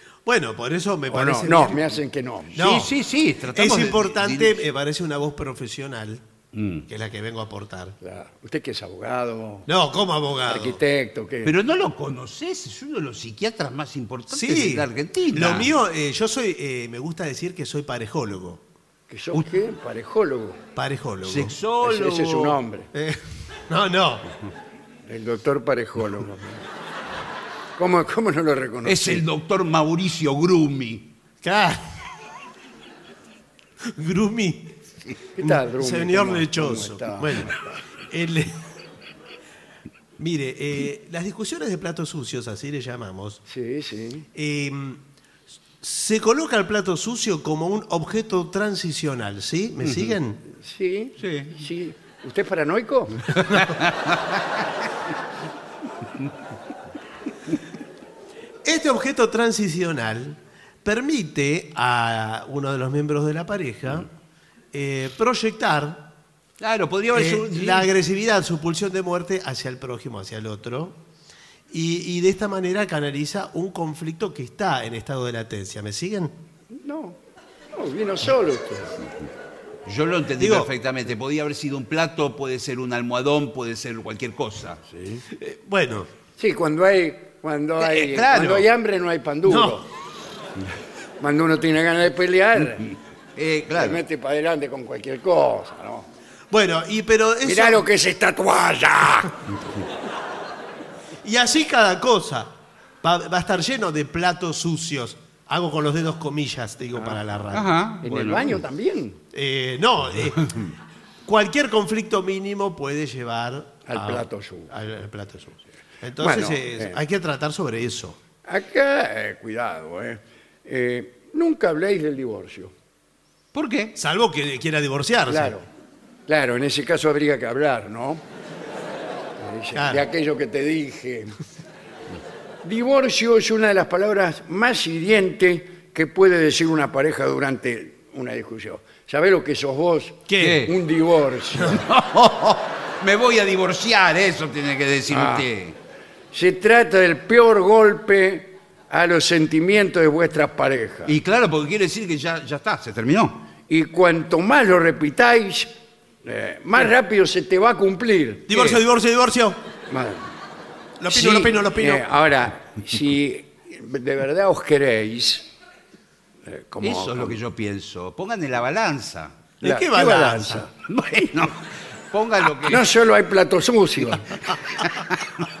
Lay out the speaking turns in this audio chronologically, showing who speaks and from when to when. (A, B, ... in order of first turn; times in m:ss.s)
0:00.2-0:02.0 A
0:01.1-0:02.7 B
0:02.6-0:02.9 A
0:02.6-0:04.6 C
0:03.5-0:06.2 A
0:06.5-0:06.9 C
0:06.9-0:08.0 A
0:08.0-0:09.7 B
0:09.7-0:10.8 A
0:10.4-0:11.5 B
0:11.4-0:15.7 C
0:14.3-0:18.6 A
0:19.1-0:20.6 B
0:20.8-0:21.6 A
0:21.2-0:22.6 C
0:21.8-0:22.9 B
0:22.9-0:24.3 A
0:25.1-0:26.6 B
0:27.8-0:29.2 B
0:28.8-0:31.1 C
0:31.4-0:32.0 A
0:33.8-0:34.8 A
0:35.4-0:37.8 B
0:35.4-0:37.5 A
0:38.1-0:38.6 A
0:40.2-0:43.4 A
0:43.5-0:44.3 B
0:44.3-0:45.0 A
0:45.8-0:50.4 A
0:49.8-0:50.1 C
0:50.5-0:53.5 B
0:51.2-0:51.5 C
0:53.6-0:54.2 C
0:58.6-1:04.1 A
1:04.7-1:06.1 A
1:06.6-1:07.9 C
1:07.1-1:11.0 A
1:11.7-1:16.3 A
1:16.7-1:17.2 B
1:17.7-1:19.0 B
1:19.8-1:24.8 C
1:20.4-1:20.7 A
1:24.9-1:25.2 B
1:25.3-1:26.1 A
1:26.4-1:29.8 B
1:27.8-1:28.6 C
1:29.4-1:29.8 A
1:31.2-1:32.9 B
1:33.4-1:34.0 C
1:33.7-1:36.1 B
1:36.5-1:37.8 A
1:37.4-1:39.4 B
1:41.2-1:47.7 A
1:47.5-1:48.6 C
1:48.0-1:49.2 B
1:49.3-1:50.7 A
1:51.2-1:58.2 A
1:53.9-1:54.7 B
1:56.2-1:57.0 B
1:58.4-2:02.7 B
2:03.5-2:03.9 C
2:03.9-2:05.5 A
2:05.3-2:05.6 B
2:06.3-2:08.2 B
2:09.4-2:11.4 B
2:09.7-2:10.0 A
2:12.6-2:21.8 B
2:20.3-2:20.7 A
2:20.4-2:20.7 C
2:21.7-2:25.8 C
2:25.1-2:25.5 B
2:26.3-2:31.1 B
2:31.1-2:33.5 C
2:33.7-2:35.7 B
2:36.2-2:38.8 B
2:38.5-2:39.6 A
2:39.9-2:40.3 B
2:41.0-2:42.1 A
2:41.1-2:45.5 B
2:46.4-2:47.4 B
2:46.8-2:49.4 C
2:49.6-2:50.6 A
2:49.6-2:50.7 B
2:50.8-2:52.9 C
2:52.7-2:54.4 B
2:54.8-2:55.1 C